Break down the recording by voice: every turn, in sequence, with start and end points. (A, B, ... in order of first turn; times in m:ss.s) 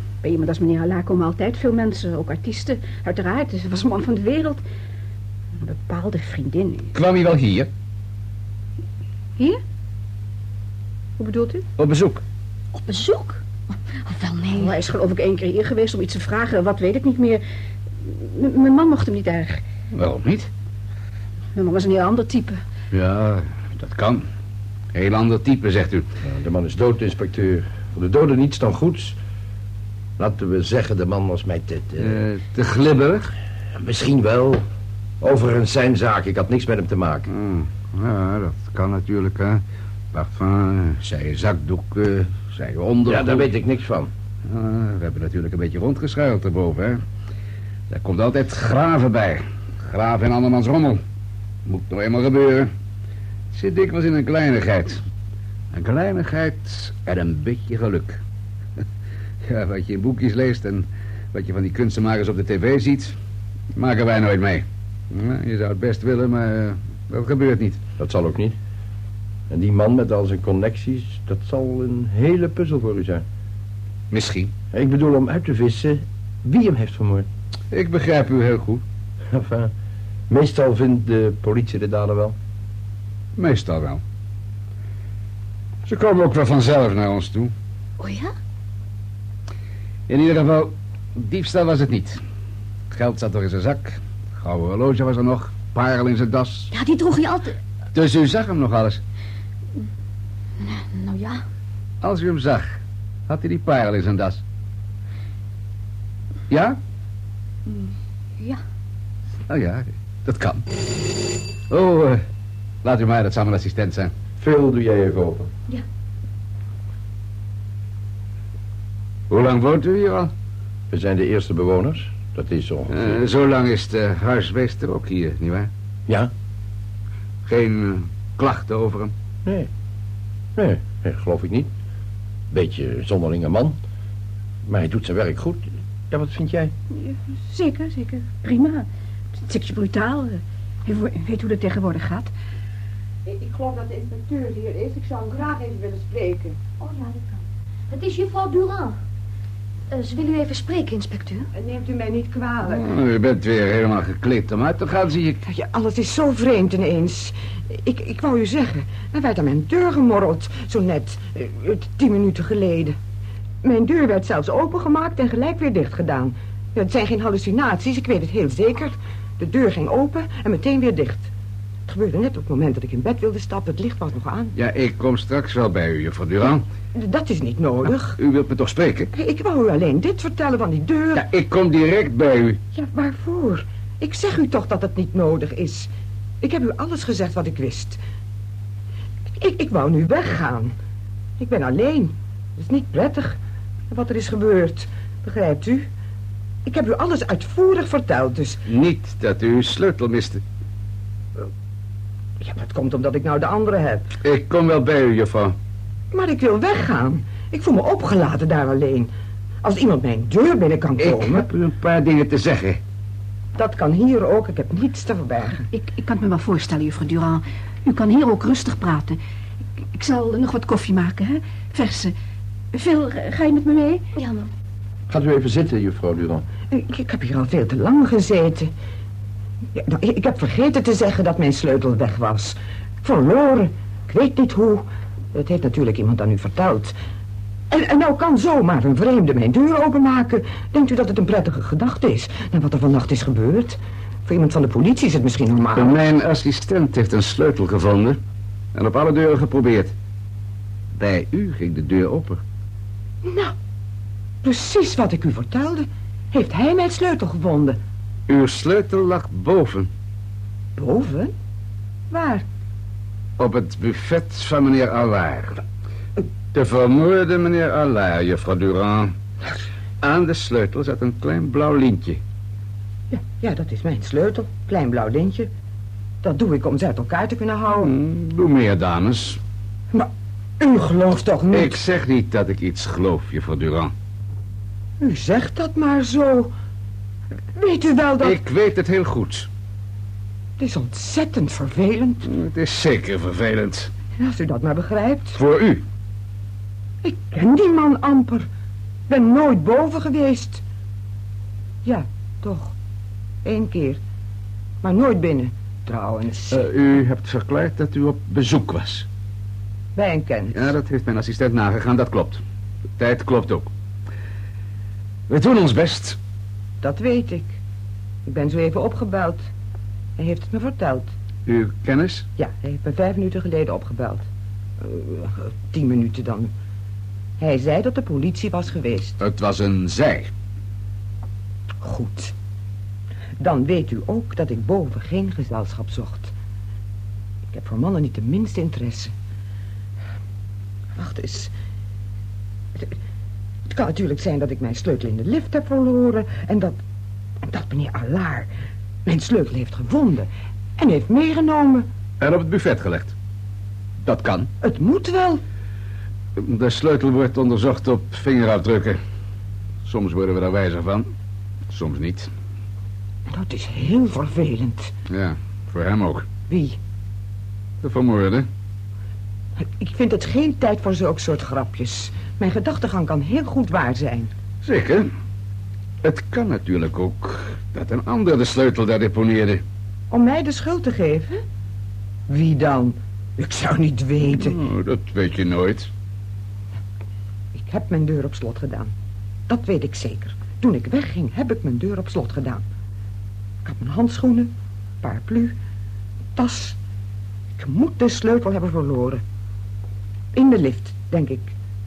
0:00.2-0:04.6 A
0:05.6-0:06.9 A
0:06.9-0:07.7 B
0:11.2-0:11.6 A
0:11.8-0:12.2 B
0:12.7-0:13.4 C
0:14.0-0:14.7 C
0:14.5-0:17.4 A
0:18.0-0:19.6 A
0:19.9-0:20.5 B
0:21.5-0:22.6 A
0:22.9-0:24.2 B
0:24.9-0:26.1 B
0:26.2-0:29.2 D
0:30.2-0:32.2 D
0:32.0-0:33.3 B
0:33.7-0:34.6 D
0:35.2-0:37.3 D
0:37.3-0:39.6 B
0:40.1-0:43.5 B
0:43.0-0:44.1 D
0:44.4-0:47.0 B
0:47.9-0:51.0 B
0:51.6-0:52.7 B
0:53.5-0:55.0 B
0:55.7-0:58.2 B
0:59.4-1:03.1 B
1:03.7-1:07.8 B
1:08.0-1:08.6 D
1:09.5-1:13.2 D
1:14.1-1:14.5 B
1:14.7-1:17.3 D
1:17.7-1:18.8 B
1:19.3-1:19.7 D
1:20.3-1:22.3 D
1:23.4-1:24.0 B
1:25.8-1:27.5 B
1:28.0-1:28.3 C
1:30.1-1:32.2 B
1:32.9-1:36.7 B
1:36.7-1:37.6 C
1:37.9-1:39.0 B
1:40.6-1:41.4 C
1:42.0-1:42.8 B
1:43.3-1:44.4 B
1:46.5-1:46.8 B
1:47.6-1:48.6 C
1:49.5-1:50.6 B
1:51.7-1:52.2 B
1:52.8-1:54.1 B
1:54.4-1:55.5 D
1:59.3-2:00.3 B
2:00.9-2:03.2 D
2:02.9-2:05.7 B
2:07.4-2:09.1 B
2:09.4-2:09.7 D
2:10.6-2:11.7 D
2:12.5-2:13.8 D
2:14.6-2:16.7 D
2:16.9-2:18.9 A
2:19.4-2:22.3 A
2:23.2-2:26.6 E
2:26.8-2:29.0 C
2:29.9-2:31.5 C
2:31.5-2:32.9 E
2:32.7-2:35.4 B
2:35.4-2:43.0 E
2:43.6-2:51.3 E
2:51.9-2:54.5 E
2:54.5-2:56.6 B
2:56.9-2:58.2 E
2:58.2-2:59.1 B
2:59.1-3:01.2 E
3:01.1-3:02.6 B
3:02.7-3:05.9 E
3:06.4-3:08.0 E
3:09.4-3:10.7 E
3:11.4-3:13.4 E
3:13.9-3:15.9 E
3:16.6-3:18.6 E
3:18.6-3:20.4 B
3:22.4-3:24.1 E
3:24.2-3:25.6 B
3:26.1-3:29.1 E
3:29.6-3:31.4 E
3:31.0-3:32.8 B
3:33.6-3:35.6 E
3:35.7-3:39.2 A
3:39.9-3:42.1 A
3:42.7-3:44.1 A
3:44.2-3:44.5 C
3:45.1-3:46.4 D
3:46.7-3:48.7 E
3:49.8-3:56.9 E
3:57.7-4:06.0 E
4:05.7-4:08.2 B
4:08.7-4:09.9 B
4:10.9-4:12.4 B
4:13.2-4:13.5 E
4:14.4-4:17.8 E
4:18.3-4:19.9 B
4:20.8-4:21.3 E
4:22.1-4:22.4 E
4:23.4-4:25.6 B
4:26.5-4:29.1 B
4:30.0-4:32.2 B
4:33.1-4:35.5 E
4:36.2-4:37.9 E
4:37.8-4:39.4 B
4:39.9-4:41.8 E
4:41.5-4:43.9 B
4:45.0-4:46.5 E
4:47.5-4:48.4 E
4:48.2-4:49.5 B
4:50.6-4:52.3 E
4:52.2-4:53.9 B
4:54.2-4:55.4 E
4:55.3-4:55.8 B
4:57.0-4:58.4 E
4:59.1-5:00.6 E
5:01.8-5:02.7 E
5:03.4-5:04.0 E
5:04.8-5:06.7 E
5:06.5-5:09.0 B
5:09.9-5:10.7 E
5:10.5-5:12.4 B
5:13.0-5:13.7 B
5:15.3-5:16.2 B
5:16.8-5:17.6 E
5:18.2-5:19.4 E
5:20.2-5:21.1 E
5:21.4-5:22.3 B
5:22.4-5:24.2 E
5:24.8-5:26.5 E
5:27.4-5:29.2 E
5:29.2-5:30.3 B
5:31.8-5:32.3 E
5:33.4-5:36.3 E
5:37.5-5:39.1 E
5:40.9-5:41.5 E
5:43.7-5:46.8 E
5:47.4-5:48.5 E
5:49.0-5:51.9 E
5:52.2-5:53.1 B
5:54.0-5:54.5 B
5:54.6-5:55.4 E
5:56.4-5:59.0 B
5:59.8-6:01.1 B
6:01.7-6:02.3 B
6:03.3-6:04.9 E
6:05.1-6:06.3 B
6:06.5-6:06.8 E
6:07.8-6:08.4 B
6:09.6-6:14.3 E
6:14.6-6:15.1 B
6:16.0-6:19.6 B
6:20.1-6:21.4 E
6:22.3-6:24.6 E
6:24.2-6:25.9 B
6:27.5-6:28.9 E
6:29.5-6:32.6 E
6:33.6-6:34.5 E
6:35.0-6:35.6 E
6:36.3-6:36.8 E
6:37.6-6:39.2 E
6:40.3-6:41.5 E